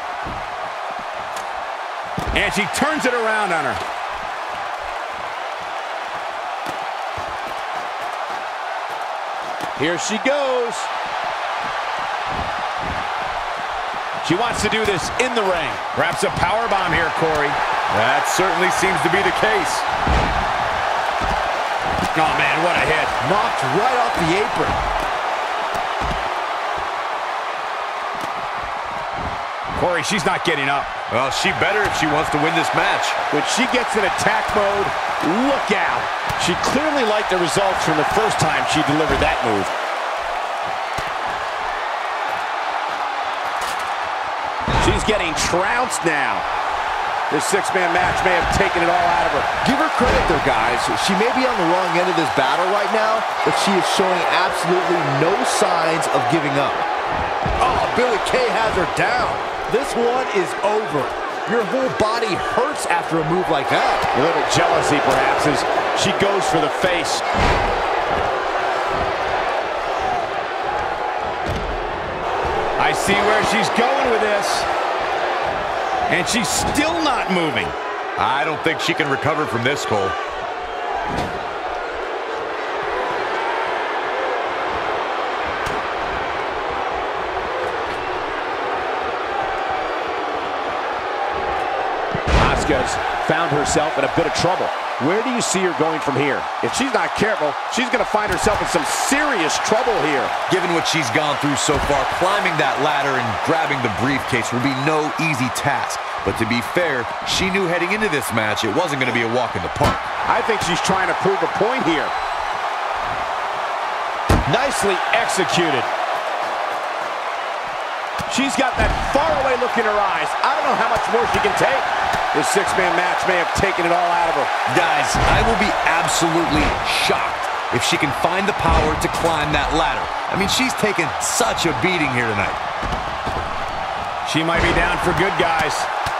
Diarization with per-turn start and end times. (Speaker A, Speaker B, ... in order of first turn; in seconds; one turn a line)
Speaker A: 2.3-3.8
Speaker A: 9.8-10.9
Speaker A: 14.2-17.6
Speaker B: 17.9-19.9
Speaker A: 22.1-23.1
Speaker C: 23.2-24.8
Speaker A: 29.7-30.9
Speaker B: 31.1-33.2
Speaker A: 33.3-39.7
Speaker A: 44.8-46.4
Speaker A: 47.3-49.5
Speaker C: 49.6-56.9
Speaker C: 57.6-64.1
Speaker A: 64.1-67.2
Speaker A: 72.8-74.7
Speaker A: 76.1-77.8
Speaker B: 78.2-80.2
Speaker A: 92.4-100.3
Speaker B: 100.5-110.0
Speaker A: 110.2-112.1
Speaker A: 114.4-115.9
Speaker A: 118.3-124.5
Speaker B: 124.7-132.6
Speaker A: 134.2-135.9